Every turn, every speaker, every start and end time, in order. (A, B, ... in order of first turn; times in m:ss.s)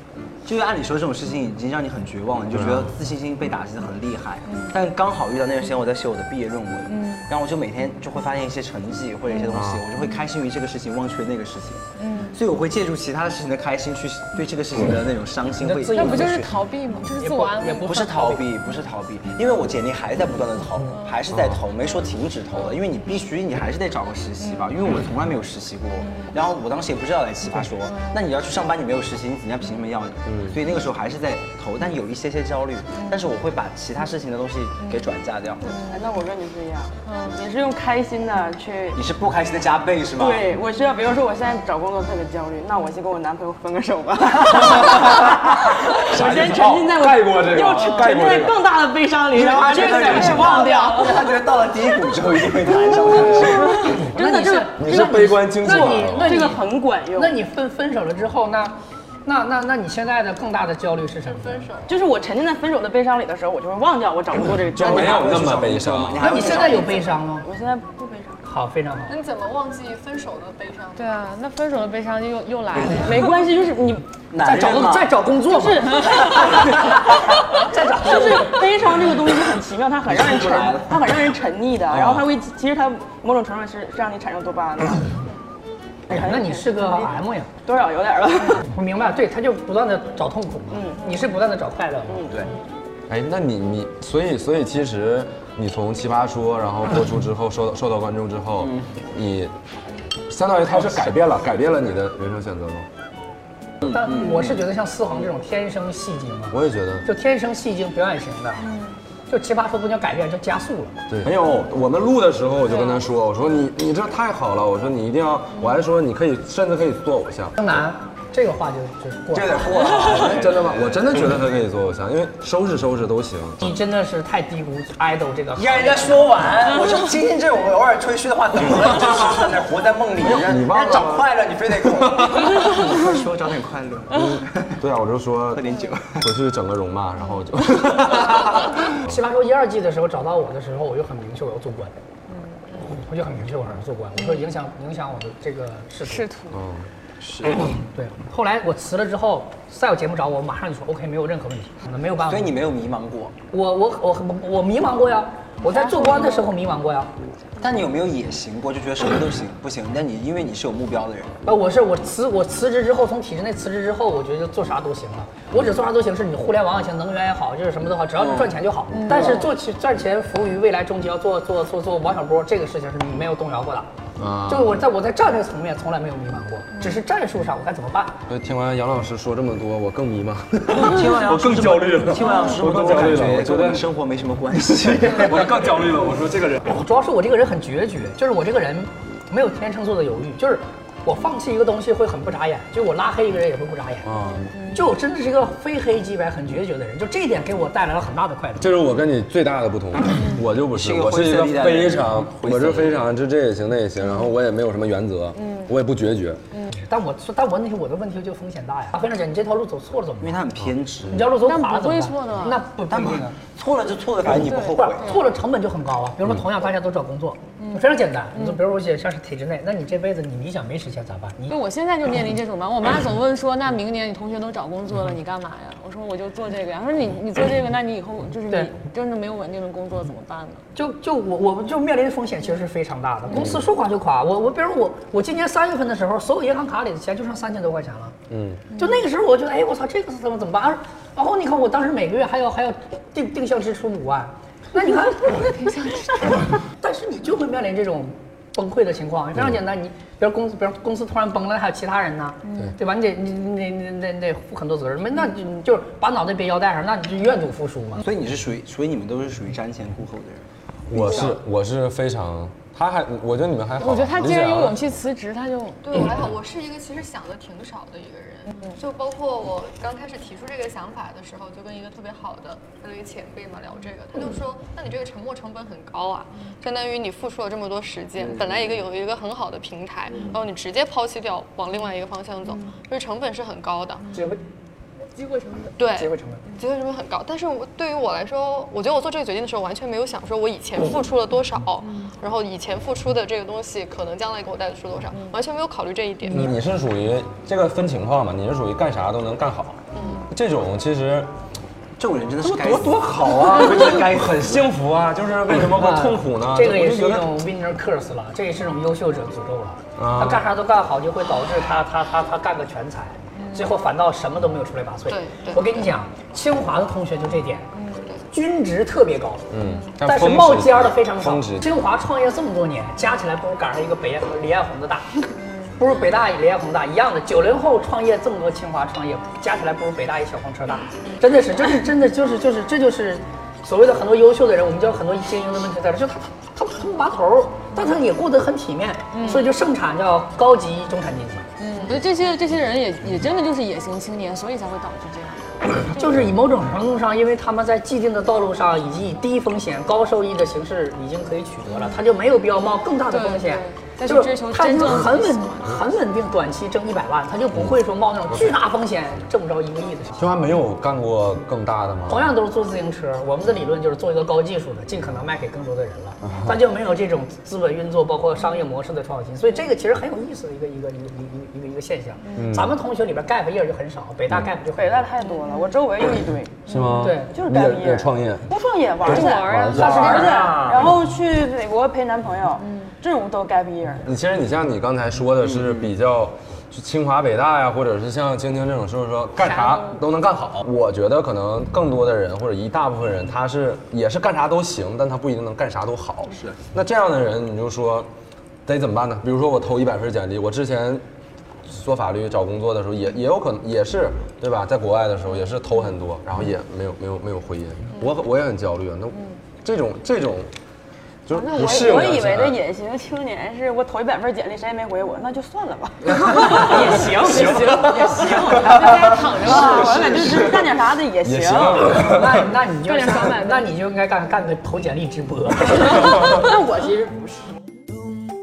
0:00.4-0:16.5 A
0:02.5-0:02.9 B
0:04.5-0:04.7 C
0:06.9-0:07.2 C
0:09.5-0:09.8 B
0:12.0-0:12.4 C
0:15.6-0:16.4 D
0:15.9-0:18.0 C
0:17.2-0:18.4 D
0:17.8-0:35.6 A
0:21.3-0:21.6 B
0:30.3-0:30.6 B
0:35.7-0:36.0 C
0:35.8-0:39.0 E
0:37.0-0:37.4 C
0:38.9-0:40.4 A
0:40.1-0:45.4 E
0:44.4-0:45.6 A
0:46.0-0:51.3 E
0:46.1-0:48.6 B
0:46.1-0:46.8 A
0:49.3-0:53.9 A
0:49.9-0:50.6 D
0:52.6-0:54.8 E
0:53.9-0:58.7 D
0:54.8-0:56.5 B
0:55.6-0:57.4 E
0:59.2-1:01.7 D
1:01.3-1:01.9 F
1:01.8-1:05.5 E
1:04.8-1:06.2 B
1:04.8-1:07.0 A
1:06.2-1:07.4 D
1:07.4-1:08.4 E
1:08.4-1:09.2 D
1:09.1-1:11.2 F
1:11.0-1:13.4 C
1:13.0-1:14.1 E
1:14.3-1:15.1 A
1:14.4-1:16.8 D
1:15.5-1:16.9 E
1:16.0-1:16.6 C
1:17.5-1:18.6 D
1:18.0-1:25.1 E
1:20.1-1:21.4 A
1:21.9-1:22.3 A
1:26.1-1:27.5 D
1:26.1-1:28.7 E
1:28.6-1:32.3 D
1:30.7-1:31.0 E
1:32.1-1:32.4 E
1:32.2-1:32.5 A
1:33.1-1:39.5 B
1:40.3-1:42.9 B
1:43.8-1:44.5 A
1:43.9-1:48.7 D
1:46.5-1:47.1 B
1:49.3-1:51.0 D
1:51.1-1:57.6 B
1:52.7-1:53.0 C
1:57.6-1:59.8 D
1:59.3-2:01.0 A
1:59.4-2:03.6 B
2:03.6-2:06.3 D
2:05.5-2:14.8 A
2:10.2-2:11.3 B
2:11.8-2:12.6 B
2:14.2-2:18.8 B
2:15.5-2:16.3 A
2:17.8-2:18.5 A
2:19.0-2:21.9 D
2:22.8-2:26.3 D
2:26.0-2:26.6 C
2:26.5-2:26.9 B
2:27.2-2:27.6 A
2:27.9-2:32.6 D
2:32.2-2:33.3 A
2:33.5-2:37.1 D
2:35.7-2:36.5 C
2:37.6-2:41.4 A
2:41.4-2:53.9 D
2:48.2-2:48.5 A
2:48.9-2:49.4 C
2:54.2-2:54.8 B
2:54.5-2:58.2 D
2:58.3-3:03.8 B
3:00.7-3:05.7 A
3:04.8-3:06.6 B
3:06.6-3:14.1 D
3:14.0-3:14.5 B
3:14.7-3:18.7 D
3:18.6-3:26.4 B
3:20.7-3:23.0 A
3:25.4-3:25.7 C
3:26.8-3:30.4 D
3:30.2-3:31.3 A
3:31.1-3:33.4 D
3:31.4-3:32.6 C
3:32.9-3:35.2 A
3:34.3-3:35.3 C
3:34.4-3:41.6 D
3:37.6-3:38.6 C
3:41.5-3:50.6 C
3:50.8-3:58.2 D
3:53.3-3:53.6 B
3:58.3-3:58.6 B
3:58.8-4:18.0 D
4:05.6-4:06.0 C
4:18.0-4:21.4 A
4:20.9-4:25.0 B
4:23.8-4:26.2 C
4:25.8-4:44.0 F
4:44.1-4:44.4 D
4:45.2-4:45.7 C
4:45.8-4:56.5 F
4:45.9-4:46.4 D
4:56.3-5:01.3 B
4:59.9-5:00.2 F
5:02.0-5:04.7 A
5:02.4-5:07.4 B
5:05.7-5:17.6 D
5:10.0-5:10.5 B
5:13.4-5:13.7 C
5:15.1-5:15.9 F
5:17.9-5:18.2 F
5:18.3-5:19.4 D
5:19.5-5:21.7 B
5:20.0-5:25.2 D
5:25.8-5:41.5 D
5:39.1-5:39.5 C
5:41.6-5:46.2 C
5:45.9-6:00.3 D
5:53.1-5:55.7 C
6:00.2-6:02.3 B
6:02.1-6:15.1 D
6:06.2-6:06.6 B
6:12.4-6:12.8 B
6:14.7-6:16.7 E
6:15.2-6:15.7 C
6:16.7-6:17.2 C
6:16.7-6:18.5 B
6:17.0-6:17.3 D
6:17.3-6:24.1 E
6:19.0-6:20.2 B
6:19.0-6:20.6 C
6:19.7-6:20.8 D
6:22.6-6:22.9 C
6:24.0-6:38.1 B
6:25.4-6:25.9 A
6:29.5-6:30.0 C
6:36.3-6:36.6 A
6:38.6-6:41.0 B
6:41.7-6:50.5 B
6:51.2-6:52.6 B
6:51.4-6:52.1 C
6:51.4-7:01.8 E
6:56.2-7:00.6 B
6:56.2-7:00.5 C
7:01.2-7:02.5 B
7:01.8-7:06.2 D
7:02.8-7:03.7 C
7:05.8-7:07.2 C
7:06.4-7:06.8 E